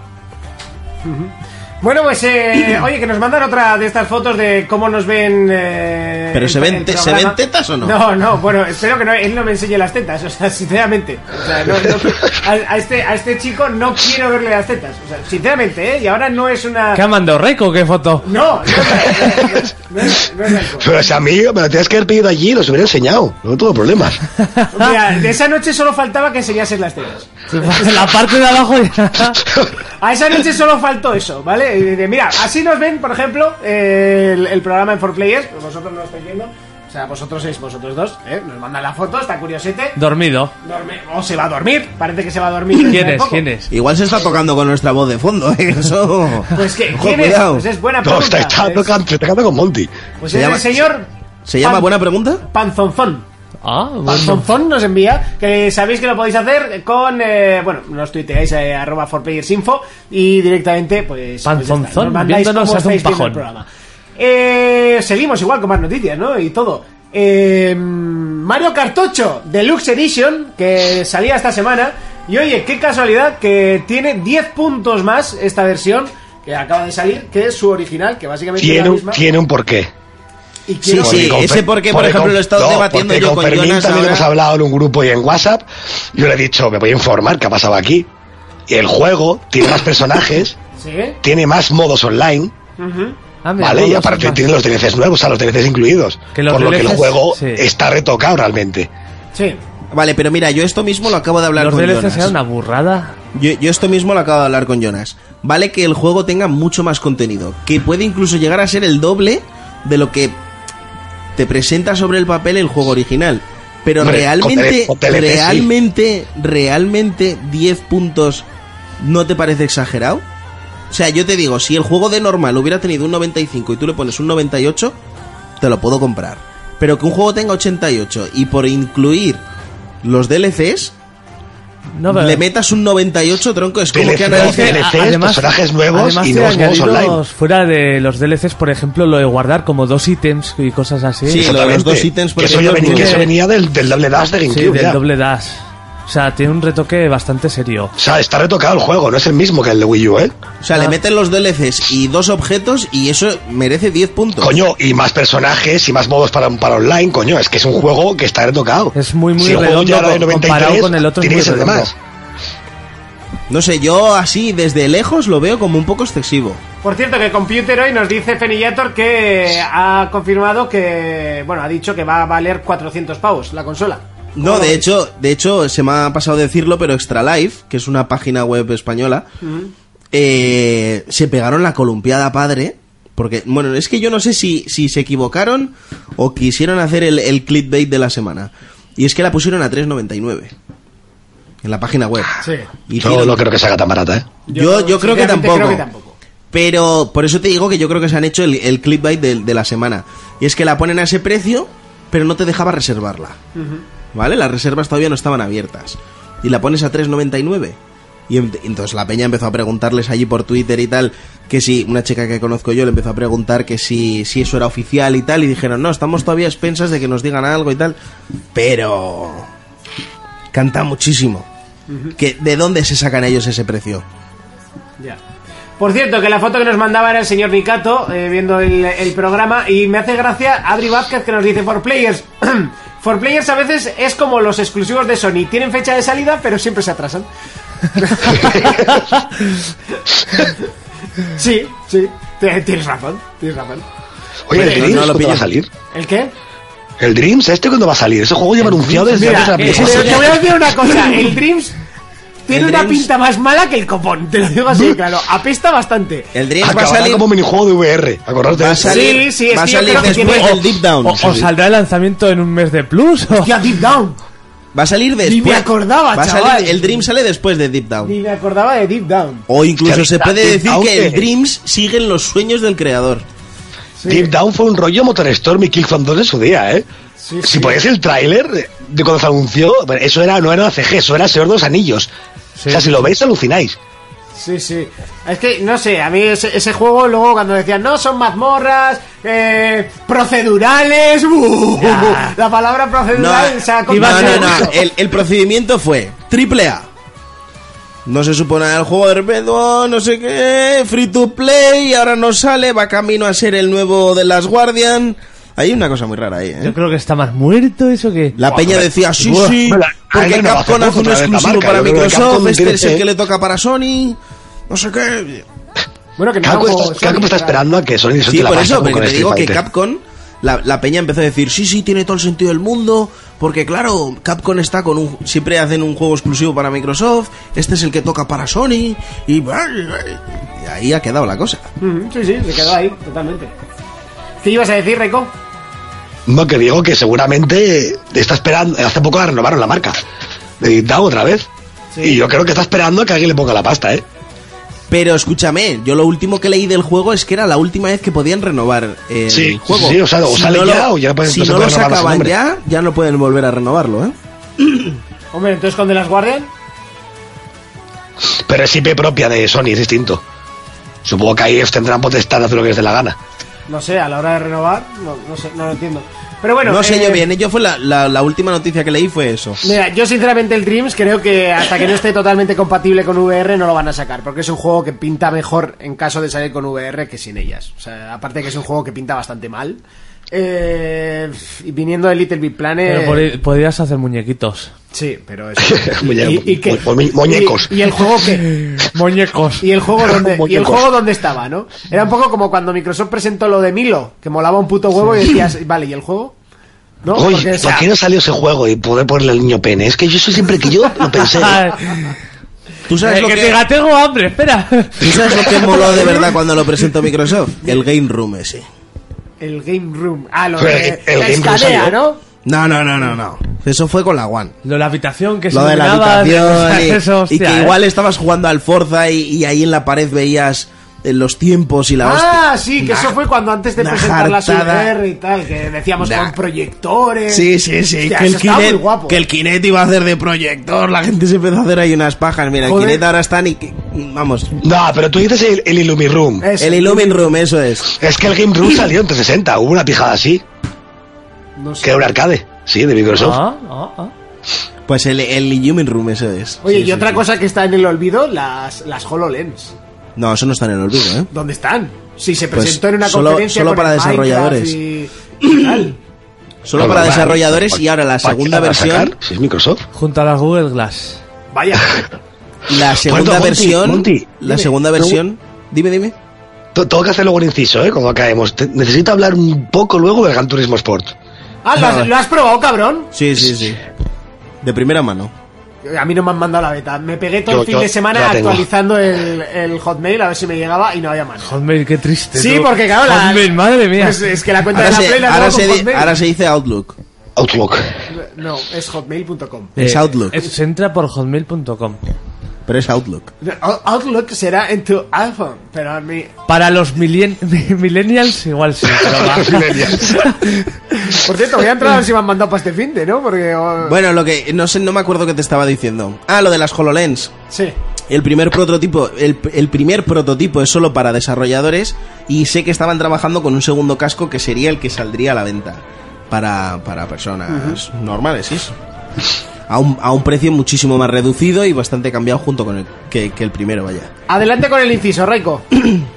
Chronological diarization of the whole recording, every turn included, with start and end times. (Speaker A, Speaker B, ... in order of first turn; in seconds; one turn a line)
Speaker A: 1.0-17.0
Speaker B: 6.3-8.0
Speaker C: 16.9-18.3
Speaker A: 18.2-20.9
Speaker D: 20.8-24.2
Speaker A: 24.7-28.1
Speaker C: 27.5-29.4
Speaker A: 30.0-40.0
Speaker C: 40.0-40.5
Speaker A: 40.6-43.4
Speaker C: 42.8-43.7
Speaker B: 43.7-47.7
Speaker A: 46.5-48.9
Speaker D: 48.0-49.9
Speaker A: 50.2-51.1
Speaker B: 50.3-50.8
Speaker B: 51.4-52.4
Speaker A: 51.6-53.2
Speaker C: 53.6-54.5
Speaker A: 54.0-79.2
Speaker C: 61.5-63.4
Speaker D: 78.6-79.9
Speaker A: 80.7-81.4
Speaker B: 80.8-84.3
Speaker D: 81.0-88.1
Speaker D: 88.7-90.6
Speaker A: 90.8-91.2
Speaker D: 91.2-92.5
Speaker A: 92.8-93.2
Speaker C: 93.4-94.5
Speaker D: 93.6-98.9
Speaker C: 96.3-97.6
Speaker A: 99.3-99.6
Speaker B: 99.9-102.3
Speaker C: 101.5-103.1
Speaker B: 103.3-110.4
Speaker B: 111.3-118.5
Speaker D: 114.0-115.7
Speaker B: 119.0-120.2
Speaker B: 120.9-125.0
Speaker B: 125.6-129.4
Speaker B: 130.0-130.9
Speaker C: 131.9-132.4
Speaker B: 132.1-134.8
Speaker D: 133.9-137.2
Speaker C: 134.3-141.5
Speaker B: 141.2-143.3
Speaker D: 141.3-145.0
Speaker C: 142.8-143.3
Speaker C: 144.5-147.9
Speaker D: 148.0-150.4
Speaker B: 150.6-154.6
Speaker D: 154.4-161.9
Speaker C: 158.9-161.9
Speaker B: 163.5-166.6
Speaker A: 166.8-174.8
Speaker B: 174.3-179.3
Speaker A: 179.4-179.7
Speaker B: 180.1-190.5
Speaker B: 191.6-193.4
Speaker A: 192.4-192.7
Speaker D: 193.0-194.3
Speaker A: 194.5-196.2
Speaker B: 194.5-195.8
Speaker B: 196.5-203.4
Speaker A: 203.5-203.8
Speaker B: 204.1-207.8
Speaker B: 208.3-218.0
Speaker B: 218.5-219.5
Speaker B: 220.5-221.5
Speaker A: 221.9-222.1
Speaker B: 222.2-224.0
Speaker A: 225.8-237.3
Speaker A: 237.9-239.2
Speaker A: 240.3-240.7
Speaker A: 241.2-243.8
Speaker D: 244.5-245.7
Speaker B: 244.5-245.5
Speaker A: 244.6-245.0
Speaker A: 245.9-246.3
Speaker D: 247.0-250.4
Speaker C: 248.6-250.3
Speaker A: 249.1-251.8
Speaker A: 252.4-256.3
Speaker B: 252.5-253.1
Speaker B: 256.3-257.2
Speaker D: 256.6-259.2
Speaker B: 258.5-261.5
Speaker A: 258.8-260.6
Speaker C: 260.1-263.5
Speaker A: 263.3-264.2
Speaker B: 264.7-268.1
Speaker A: 265.2-267.1
Speaker A: 268.0-269.4
Speaker B: 269.5-273.2
Speaker D: 269.8-271.2
Speaker A: 274.0-274.3
Speaker D: 274.1-276.8
Speaker A: 277.2-277.8
Speaker D: 277.4-282.1
Speaker C: 282.6-282.9
Speaker D: 282.7-283.8
Speaker A: 284.3-294.7
Speaker C: 291.8-292.3
Speaker B: 293.1-296.9
Speaker C: 293.9-294.7
Speaker B: 298.1-306.7
Speaker C: 306.6-308.4
Speaker B: 308.3-314.2
Speaker D: 308.6-313.0
Speaker B: 314.7-315.4
Speaker A: 316.2-317.7
Speaker D: 316.4-319.6
Speaker B: 318.3-331.7
Speaker A: 331.8-333.5
Speaker A: 334.4-335.3
Speaker D: 336.3-340.0
Speaker D: 340.6-341.5
Speaker A: 341.9-342.2
Speaker D: 342.0-344.0
Speaker B: 344.9-354.1
Speaker D: 349.3-352.3
Speaker A: 355.3-356.5
Speaker D: 358.3-360.2
Speaker D: 361.0-363.2
Speaker A: 363.7-367.2
Speaker B: 366.6-369.6
Speaker A: 369.6-383.3
Speaker C: 382.9-384.7
Speaker A: 384.9-388.5
Speaker D: 385.6-387.7
Speaker C: 388.4-389.7
Speaker A: 389.6-396.3
Speaker D: 390.0-390.9
Speaker A: 397.0-397.9
Speaker D: 397.1-401.6
Speaker C: 401.1-402.2
Speaker B: 402.9-403.6
Speaker C: 403.0-405.8
Speaker B: 405.0-408.6
Speaker A: 409.4-412.2
Speaker D: 410.6-411.9
Speaker B: 412.4-414.5
Speaker C: 414.6-417.8
Speaker B: 415.5-423.2
Speaker A: 422.0-427.5
Speaker B: 423.8-424.9
Speaker B: 426.0-426.3
Speaker B: 427.3-434.6
Speaker A: 428.0-429.2
Speaker A: 432.6-433.0
Speaker D: 434.6-436.5
Speaker A: 436.4-437.3
Speaker B: 436.6-437.9
Speaker D: 437.9-440.4
Speaker A: 441.6-442.1
Speaker D: 441.8-443.4
Speaker C: 443.1-444.1
Speaker B: 444.9-447.2
Speaker A: 446.6-449.7
Speaker B: 450.2-451.3
Speaker A: 451.3-456.0
Speaker B: 452.5-454.8
Speaker B: 456.6-459.1
Speaker D: 456.8-459.8
Speaker C: 459.9-461.2
Speaker A: 461.5-462.1
Speaker B: 462.7-466.1
Speaker D: 463.0-464.3
Speaker A: 464.4-464.7
Speaker D: 466.7-471.1
Speaker A: 471.6-473.1
Speaker B: 471.8-472.1
Speaker B: 473.1-473.8
Speaker B: 474.6-475.3
Speaker A: 475.8-481.6
Speaker D: 477.5-478.6
Speaker C: 481.4-484.2
Speaker A: 482.3-486.1
Speaker B: 484.7-487.0
Speaker D: 487.4-487.9
Speaker A: 488.1-489.8
Speaker C: 489.8-492.0
Speaker B: 489.8-490.4
Speaker B: 492.7-493.3
Speaker A: 493.4-496.3
Speaker C: 496.5-500.7
Speaker D: 499.0-500.3
Speaker A: 501.1-504.0
Speaker B: 503.8-507.3
Speaker B: 508.1-518.7
Speaker A: 517.5-517.8
Speaker B: 519.7-524.1
Speaker A: 524.3-525.6